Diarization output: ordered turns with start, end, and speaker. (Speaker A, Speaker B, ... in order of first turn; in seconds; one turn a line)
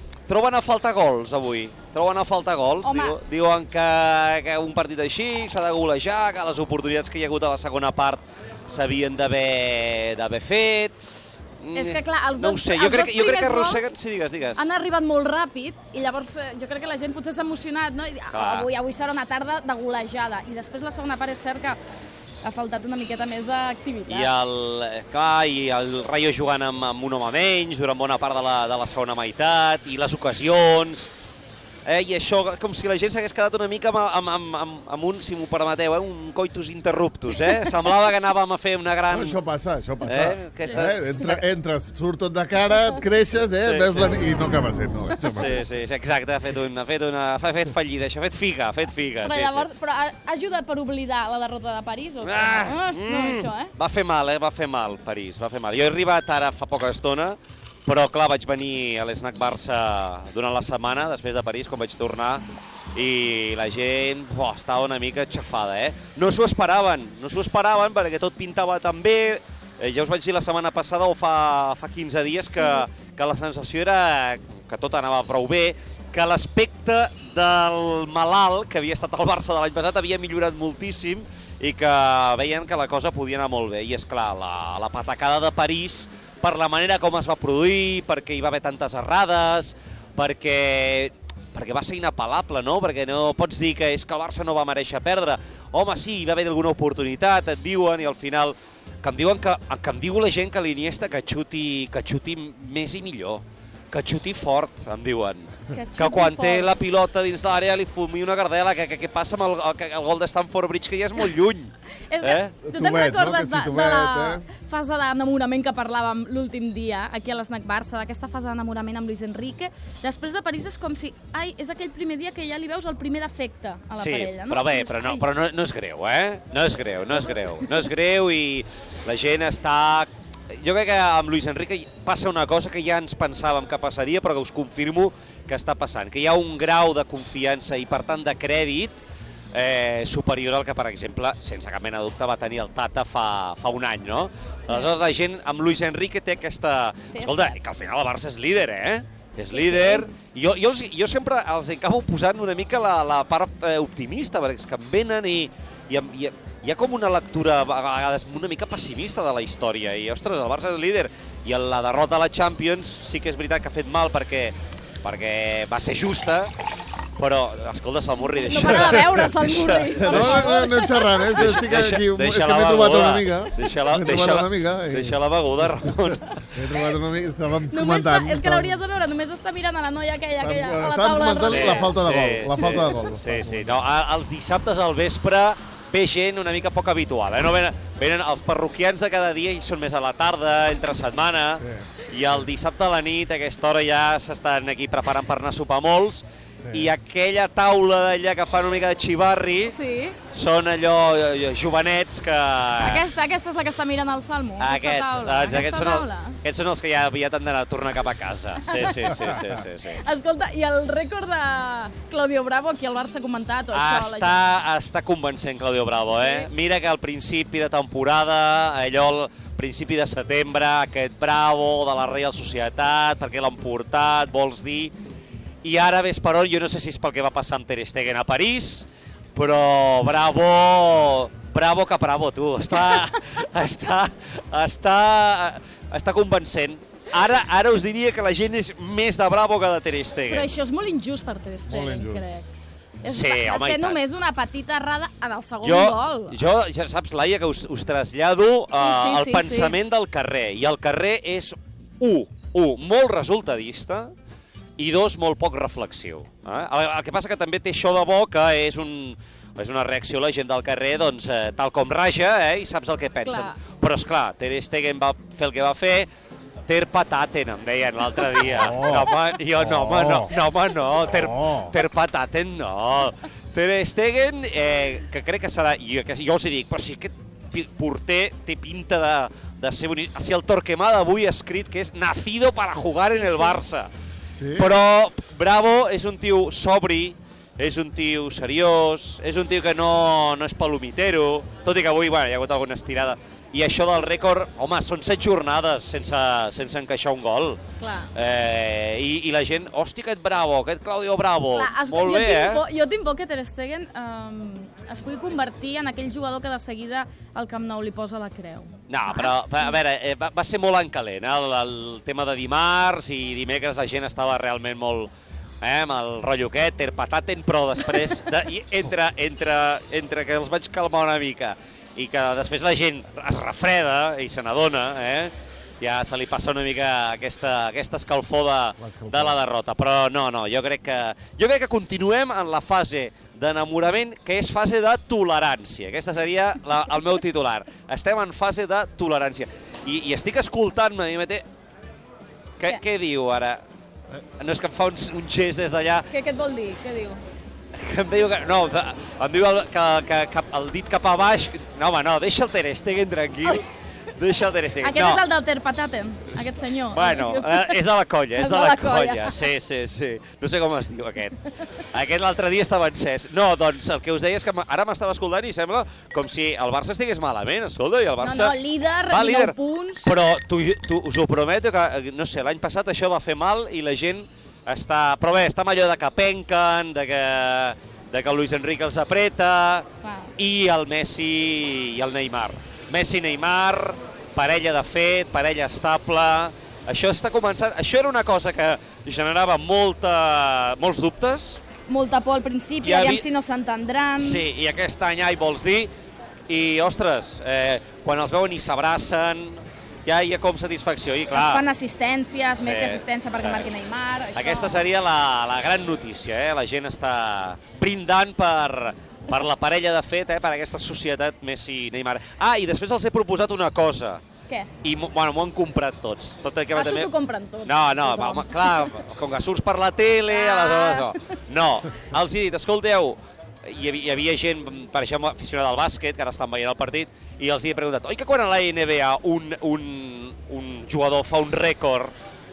Speaker A: 0.3-11.0
Speaker B: 2.8-3.2
Speaker A: 11.6-14.7
Speaker B: 11.7-13.9
Speaker B: 14.5-21.8
Speaker A: 18.3-18.7
Speaker B: 22.4-24.3
Speaker A: 24.1-31.1
Speaker A: 31.9-39.4
Speaker C: 39.1-45.5
Speaker A: 40.0-41.4
Speaker B: 40.6-41.2
Speaker A: 43.5-44.2
Speaker B: 45.2-45.4
Speaker A: 45.3-49.7
Speaker B: 49.2-53.7
Speaker A: 52.2-112.6
Speaker B: 105.7-106.8
Speaker B: 112.1-125.2
Speaker C: 112.6-114.5
Speaker A: 123.9-166.5
Speaker B: 147.1-147.6
Speaker B: 149.5-150.1
Speaker A: 167.2-170.5
Speaker B: 168.4-171.4
Speaker C: 169.8-175.2
Speaker A: 171.3-176.5
Speaker C: 176.5-178.8
Speaker B: 177.7-183.1
Speaker C: 180.4-183.8
Speaker A: 181.3-199.8
Speaker C: 191.6-191.9
Speaker C: 196.6-196.9
Speaker B: 199.7-200.2
Speaker A: 200.3-203.0
Speaker B: 202.8-206.4
Speaker A: 204.6-210.0
Speaker B: 208.6-214.4
Speaker A: 213.7-224.9
Speaker B: 216.2-216.5
Speaker A: 225.6-240.5
Speaker B: 232.7-233.0
Speaker B: 240.2-242.4
Speaker C: 241.7-242.2
Speaker B: 243.0-246.4
Speaker A: 243.0-244.0
Speaker A: 245.6-254.1
Speaker B: 248.7-249.8
Speaker A: 254.8-266.1
Speaker B: 263.2-263.6
Speaker A: 266.7-283.9
Speaker B: 268.2-268.5
Speaker C: 268.5-270.3
Speaker C: 271.1-271.7
Speaker B: 283.1-283.6
Speaker C: 284.4-284.7
Speaker A: 284.5-297.6
Speaker B: 297.8-298.1
Speaker A: 298.1-302.6
Speaker B: 301.5-309.8
Speaker A: 308.9-315.1
Speaker A: 315.6-341.4
Speaker C: 328.8-329.4
Speaker A: 342.6-343.6
Speaker A: 344.4-346.1
Speaker B: 346.1-347.2
Speaker A: 347.7-355.2
Speaker B: 354.8-357.8
Speaker A: 356.3-368.5
Speaker B: 358.4-359.4
Speaker B: 368.2-370.1
Speaker A: 369.1-391.6
Speaker B: 380.0-380.3
Speaker B: 391.9-394.4
Speaker A: 392.8-393.2
Speaker A: 394.2-395.9
Speaker A: 396.5-401.6
Speaker B: 401.3-404.9
Speaker A: 402.6-403.7
Speaker A: 404.3-414.2
Speaker A: 414.8-417.1
Speaker B: 416.7-419.0
Speaker A: 417.6-432.1
Speaker B: 420.3-421.4